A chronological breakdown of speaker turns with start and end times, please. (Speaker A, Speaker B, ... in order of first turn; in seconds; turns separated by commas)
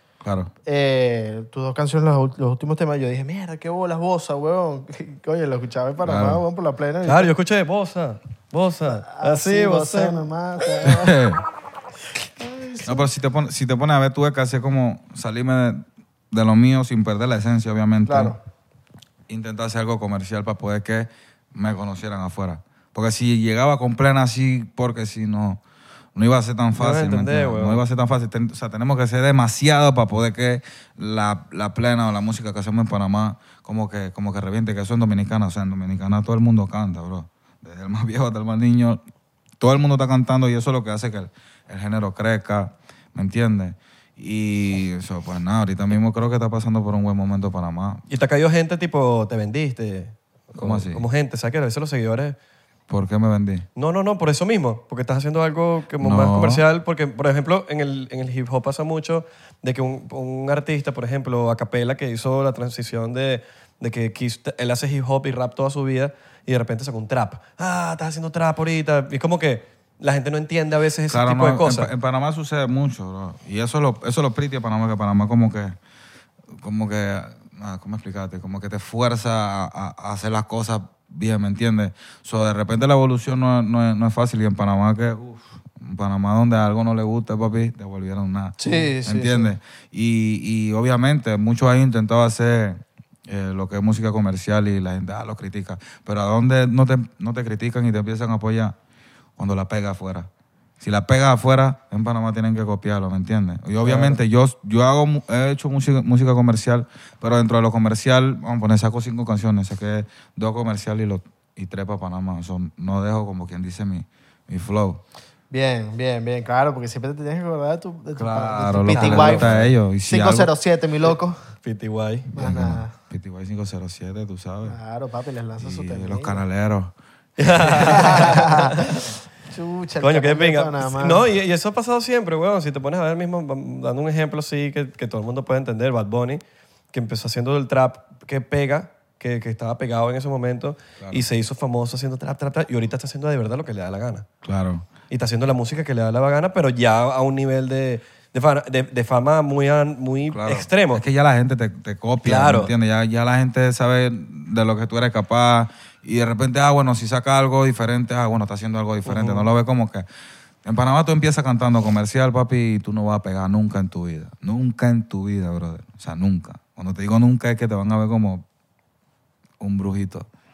Speaker A: 0.2-0.5, Speaker B: 0.7-7.3, Speaker A: 6.0-6.4, Speaker C: 7.0-10.2, Speaker B: 8.9-11.2, Speaker A: 10.8-11.4, Speaker B: 12.4-13.0, Speaker A: 12.8-18.4, Speaker B: 18.1-18.4, Speaker A: 19.3-25.6, Speaker A: 26.1-39.0, Speaker C: 26.8-27.8, Speaker A: 39.6-48.0, Speaker C: 48.1-52.4, Speaker A: 50.5-51.0, Speaker A: 52.9-53.7, Speaker C: 53.8-71.9, Speaker A: 56.0-56.6, Speaker A: 71.1-75.8, Speaker A: 76.5-98.8, Speaker B: 88.6-89.5, Speaker A: 99.4-100.3, Speaker A: 100.8-115.0, Speaker C: 103.8-104.2, Speaker B: 115.5-121.4, Speaker A: 118.1-120.5, Speaker C: 118.9-119.7, Speaker C: 121.6-122.3, Speaker B: 122.3-122.9, Speaker A: 122.4-124.8, Speaker B: 124.7-126.4, Speaker A: 125.6-128.3, Speaker C: 127.4-129.1, Speaker B: 127.8-131.3, Speaker C: 130.0-144.2, Speaker A: 144.4-144.9, Speaker C: 145.1-151.0, Speaker A: 150.3-160.1, Speaker C: 152.2-152.7, Speaker C: 159.1-159.5, Speaker A: 160.6-168.4, Speaker A: 169.6-170.3